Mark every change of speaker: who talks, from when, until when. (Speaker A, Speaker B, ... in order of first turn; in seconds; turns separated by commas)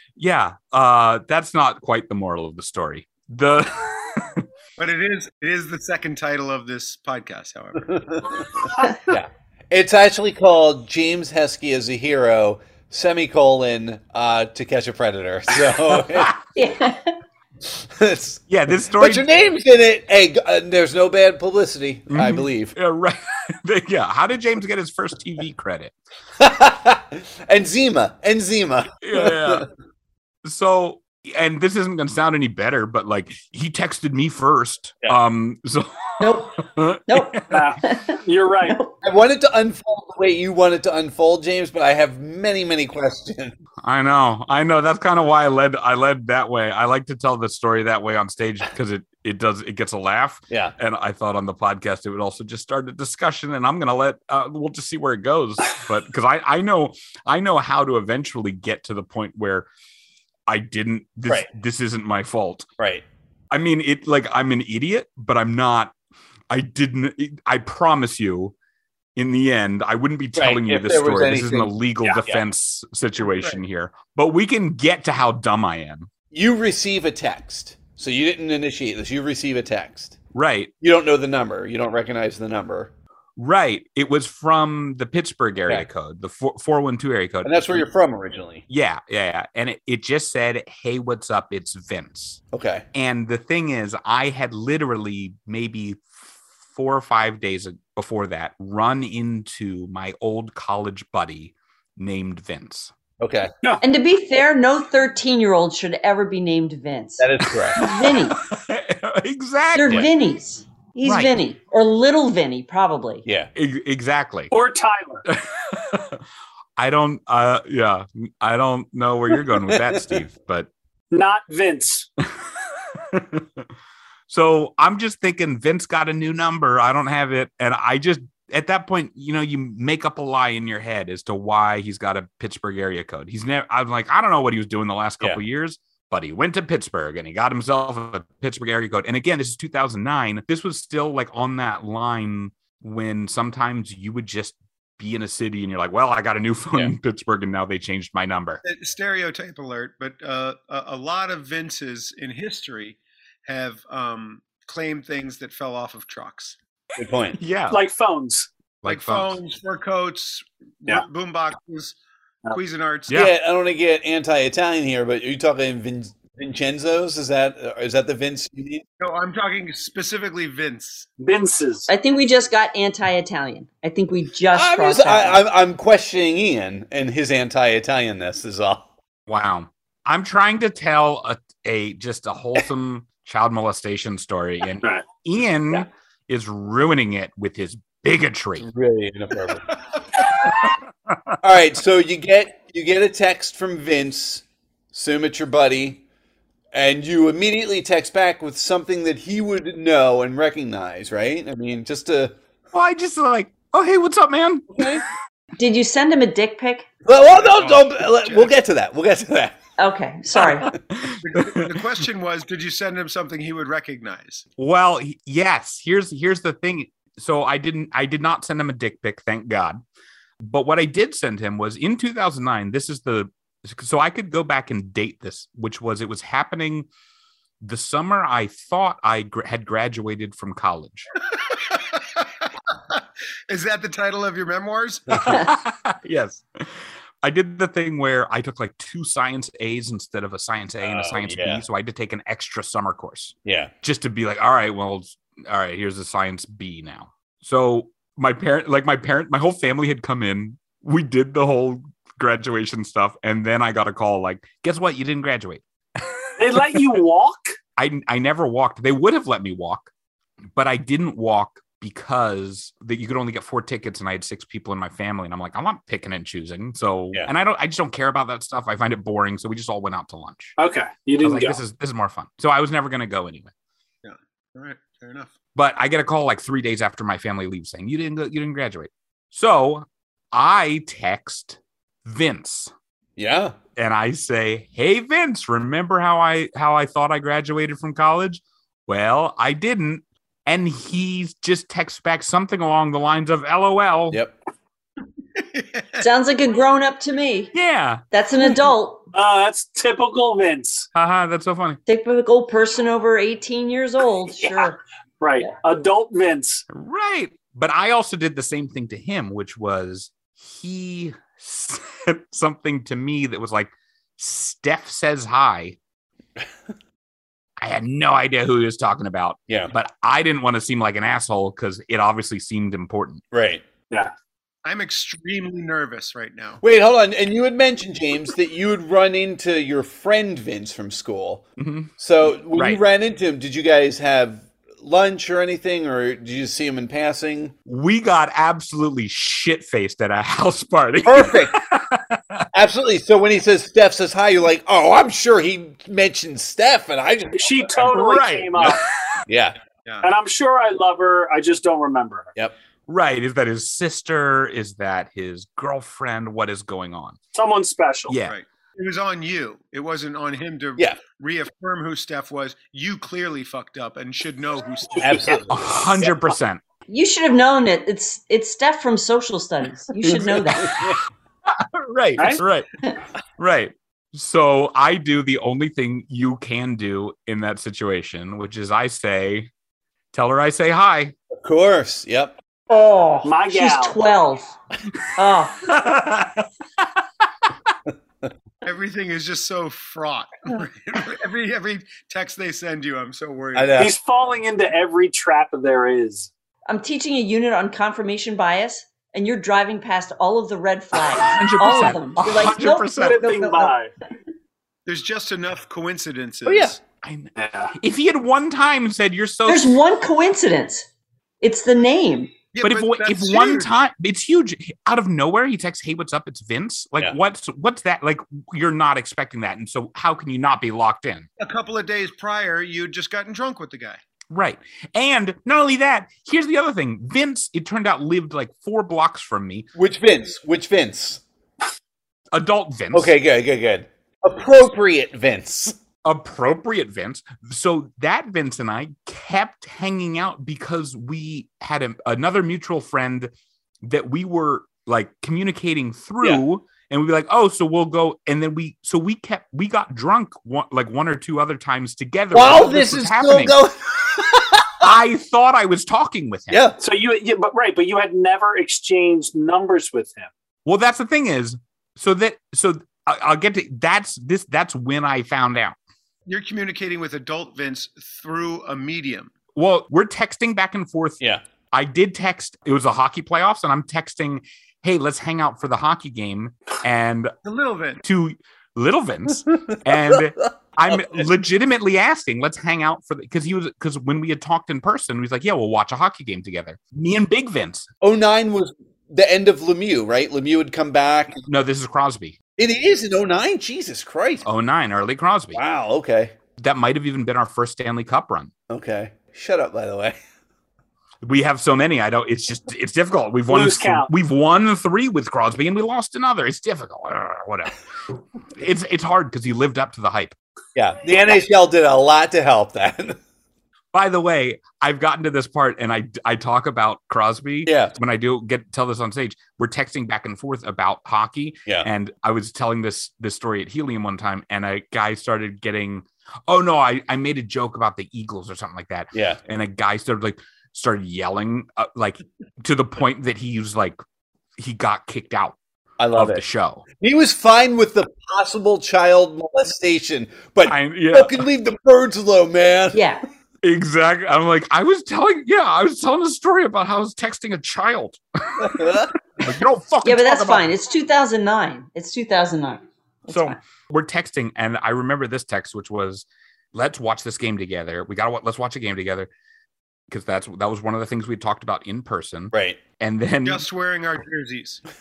Speaker A: 0.2-4.4, Speaker B: 4.8-8.4, Speaker C: 9.1-16.4, Speaker A: 15.9-16.3, Speaker D: 16.5-17.1, Speaker C: 17.7-22.7, Speaker A: 18.5-19.3, Speaker A: 22.1-25.9, Speaker C: 26.4-29.6, Speaker A: 29.0-29.7, Speaker A: 30.4-37.6, Speaker D: 36.2-38.9, Speaker E: 37.5-38.8, Speaker C: 39.0-43.5, Speaker A: 43.8-59.7, Speaker A: 60.5-62.7, Speaker C: 62.8-63.0, Speaker A: 63.5-65.9, Speaker A: 66.5-68.5, Speaker A: 69.2-76.1, Speaker C: 70.3-72.4, Speaker C: 76.3-80.2, Speaker A: 80.3-80.7, Speaker C: 80.8-82.9, Speaker A: 83.4-87.8, Speaker C: 87.4-88.6, Speaker A: 88.7-92.4, Speaker C: 92.5-92.8, Speaker A: 92.9-102.9, Speaker C: 103.2-103.5, Speaker D: 103.8-108.4, Speaker C: 107.2-107.8, Speaker A: 107.7-110.1, Speaker D: 109.7-113.2, Speaker A: 111.0-111.3, Speaker C: 113.2-113.5, Speaker A: 113.5-114.5, Speaker E: 114.5-115.2, Speaker A: 115.2-116.2, Speaker A: 116.8-120.7, Speaker C: 119.7-120.1, Speaker E: 121.1-122.1, Speaker A: 122.2-123.7, Speaker A: 124.3-148.6, Speaker B: 148.6-156.6, Speaker C: 157.0-157.4, Speaker A: 157.4-157.8, Speaker E: 157.7-158.5, Speaker A: 158.8-159.4, Speaker B: 158.8-162.0, Speaker B: 162.5-163.2, Speaker C: 163.1-168.8, Speaker B: 169.0-171.1, Speaker E: 171.2-171.9, Speaker D: 171.9-175.4, Speaker C: 174.5-178.8, Speaker A: 179.3-188.7, Speaker C: 188.6-189.7, Speaker C: 191.4-196.0, Speaker C: 196.7-202.3, Speaker A: 202.7-204.8, Speaker C: 204.7-205.0, Speaker D: 205.6-206.9, Speaker C: 207.0-209.6, Speaker B: 207.3-208.5, Speaker D: 209.8-210.7, Speaker A: 210.4-211.9, Speaker B: 211.2-214.4, Speaker A: 214.6-219.8, Speaker A: 220.4-226.9, Speaker A: 227.6-231.1, Speaker B: 231.5-235.5, Speaker A: 235.2-256.8, Speaker C: 240.8-241.6, Speaker C: 243.4-243.7, Speaker E: 256.4-257.5, Speaker A: 257.8-259.9, Speaker A: 260.5-270.6, Speaker E: 270.6-271.6, Speaker A: 271.2-273.5, Speaker B: 274.0-275.3, Speaker A: 275.5-282.7, Speaker C: 283.2-283.6, Speaker A: 283.8-294.2, Speaker B: 295.4-296.0, Speaker D: 296.0-297.5, Speaker A: 297.5-298.0, Speaker D: 298.1-299.0, Speaker E: 299.1-300.9, Speaker A: 300.9-301.8, Speaker D: 301.9-304.8, Speaker E: 304.4-306.6, Speaker A: 306.7-315.8, Speaker A: 317.6-323.2, Speaker C: 323.3-323.6, Speaker B: 324.6-326.6, Speaker C: 326.6-331.4, Speaker A: 331.6-331.9, Speaker C: 332.0-337.5, Speaker A: 332.5-332.8, Speaker A: 337.6-342.4, Speaker C: 341.0-341.6, Speaker C: 342.5-347.7, Speaker E: 347.3-348.8, Speaker A: 347.9-348.8, Speaker C: 349.3-349.6, Speaker E: 350.0-352.3, Speaker A: 352.9-357.2, Speaker E: 357.3-358.2, Speaker A: 358.1-358.3, Speaker B: 358.2-365.4, Speaker C: 365.0-366.1, Speaker A: 365.5-366.6, Speaker D: 366.9-370.9, Speaker A: 370.0-370.4, Speaker C: 370.5-371.0, Speaker A: 371.4-372.7, Speaker A: 373.4-379.5, Speaker A: 380.1-381.1, Speaker C: 381.3-382.4, Speaker D: 382.7-384.5, Speaker E: 383.2-384.0, Speaker D: 385.1-385.7, Speaker A: 385.6-386.9, Speaker B: 388.6-393.8, Speaker C: 393.5-393.9, Speaker E: 393.8-396.3, Speaker D: 396.7-403.7, Speaker A: 401.1-403.3, Speaker E: 402.4-403.9, Speaker B: 404.9-406.8, Speaker C: 406.4-406.8, Speaker A: 407.0-409.7, Speaker E: 407.4-407.7, Speaker D: 409.5-410.9, Speaker D: 411.4-412.4, Speaker B: 412.5-413.8, Speaker A: 412.6-421.3, Speaker B: 421.4-424.0, Speaker A: 424.3-429.7, Speaker C: 429.8-431.2, Speaker A: 432.3-433.1, Speaker C: 432.9-435.8, Speaker A: 436.0-443.3, Speaker A: 443.8-453.6, Speaker C: 452.3-454.8, Speaker A: 454.8-456.6, Speaker C: 456.5-456.8, Speaker E: 456.8-460.3, Speaker A: 460.6-465.8, Speaker B: 466.2-469.3, Speaker A: 469.5-471.2, Speaker A: 471.7-477.3, Speaker B: 477.4-478.0, Speaker A: 478.0-487.9, Speaker C: 480.1-480.5, Speaker C: 488.0-491.4, Speaker A: 491.4-492.4, Speaker C: 492.6-494.4, Speaker A: 494.4-495.6, Speaker C: 495.5-496.3, Speaker A: 496.6-498.5, Speaker C: 498.7-500.2, Speaker A: 501.2-510.4, Speaker E: 503.5-504.1, Speaker C: 510.7-513.2, Speaker A: 513.9-534.0, Speaker C: 517.6-517.9, Speaker C: 529.1-529.4, Speaker A: 534.6-535.6, Speaker C: 536.0-536.4, Speaker A: 536.1-536.8, Speaker C: 537.0-543.0, Speaker A: 540.6-541.5, Speaker D: 542.9-543.2, Speaker A: 543.6-550.7, Speaker C: 548.6-549.1, Speaker D: 550.0-553.6, Speaker A: 553.3-559.3, Speaker A: 560.1-563.6, Speaker C: 562.5-562.8, Speaker B: 563.4-564.8